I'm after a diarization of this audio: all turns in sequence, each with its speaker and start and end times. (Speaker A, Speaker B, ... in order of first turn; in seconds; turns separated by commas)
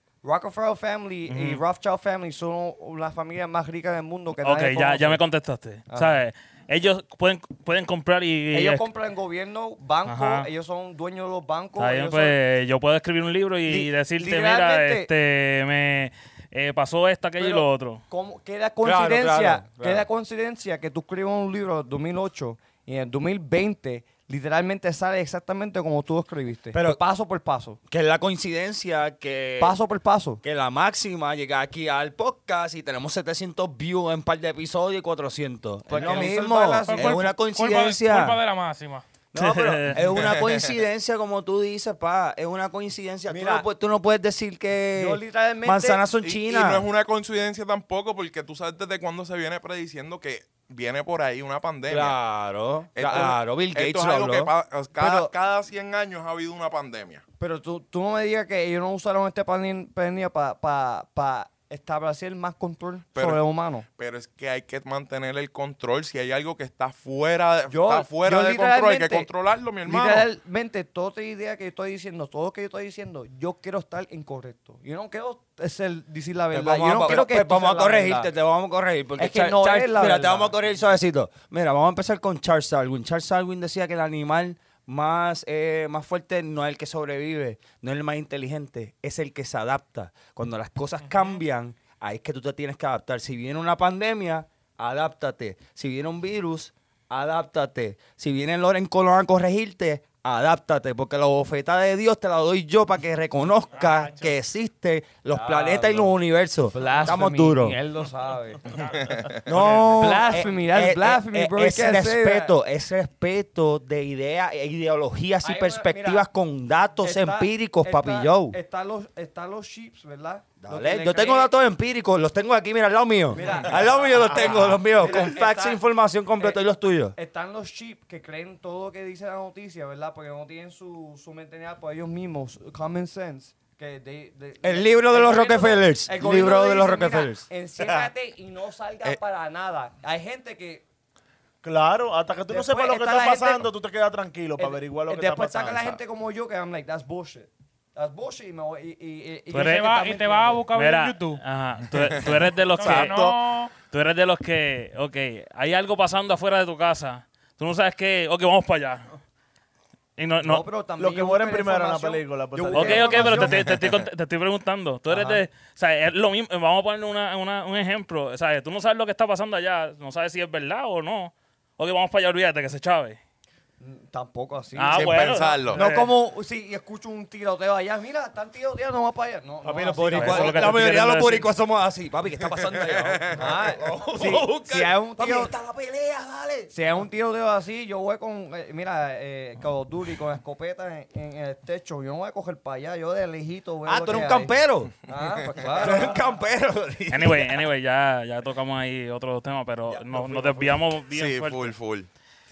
Speaker A: 0.2-5.2, Speaker B: 1.3-1.6, Speaker B: 4.4-8.9, Speaker A: 5.9-6.2, Speaker A: 8.5-12.4, Speaker B: 10.1-10.5, Speaker B: 11.8-18.0, Speaker A: 13.7-15.1, Speaker A: 17.4-27.8, Speaker C: 18.8-20.1, Speaker C: 26.7-27.0, Speaker C: 27.9-29.8, Speaker A: 29.6-30.4, Speaker C: 30.4-38.4, Speaker A: 35.9-37.2, Speaker D: 36.1-39.1, Speaker C: 39.3-46.9, Speaker B: 39.4-40.0, Speaker E: 40.2-40.7, Speaker A: 43.3-43.7, Speaker A: 45.0-46.0, Speaker E: 46.2-52.2, Speaker C: 51.9-54.5, Speaker E: 53.0-57.2, Speaker A: 53.0-53.4, Speaker A: 55.0-55.3, Speaker A: 57.4-63.9, Speaker E: 63.1-63.4, Speaker E: 64.0-70.3, Speaker A: 67.7-69.3, Speaker A: 69.8-78.3, Speaker C: 76.5-107.8, Speaker A: 79.2-80.5, Speaker D: 91.0-91.4, Speaker D: 103.7-104.4, Speaker A: 105.3-106.1, Speaker A: 106.7-108.8, Speaker D: 106.8-107.1, Speaker E: 109.0-109.4, Speaker C: 109.4-118.6, Speaker A: 109.5-112.5, Speaker A: 115.4-116.3, Speaker A: 117.0-121.5, Speaker C: 120.6-127.2, Speaker A: 123.3-125.8, Speaker F: 124.5-124.8, Speaker A: 127.2-140.8, Speaker C: 134.6-137.5, Speaker F: 137.8-138.1, Speaker F: 141.6-146.0, Speaker A: 142.5-143.7, Speaker A: 144.6-150.7, Speaker B: 149.5-149.9, Speaker D: 149.5-151.4, Speaker B: 150.7-159.1, Speaker D: 152.8-153.7, Speaker B: 160.2-160.6, Speaker A: 160.4-163.8, Speaker F: 161.0-163.5, Speaker B: 162.8-173.2, Speaker A: 165.1-165.4, Speaker A: 173.8-180.9, Speaker B: 174.7-176.2, Speaker E: 174.9-175.9, Speaker C: 179.6-186.7, Speaker B: 180.1-181.5, Speaker E: 182.4-183.5, Speaker A: 183.3-185.5, Speaker A: 186.7-194.5, Speaker C: 193.8-195.0, Speaker A: 195.1-196.2, Speaker C: 195.6-197.6, Speaker B: 197.1-201.8, Speaker C: 200.1-200.5, Speaker E: 201.1-202.1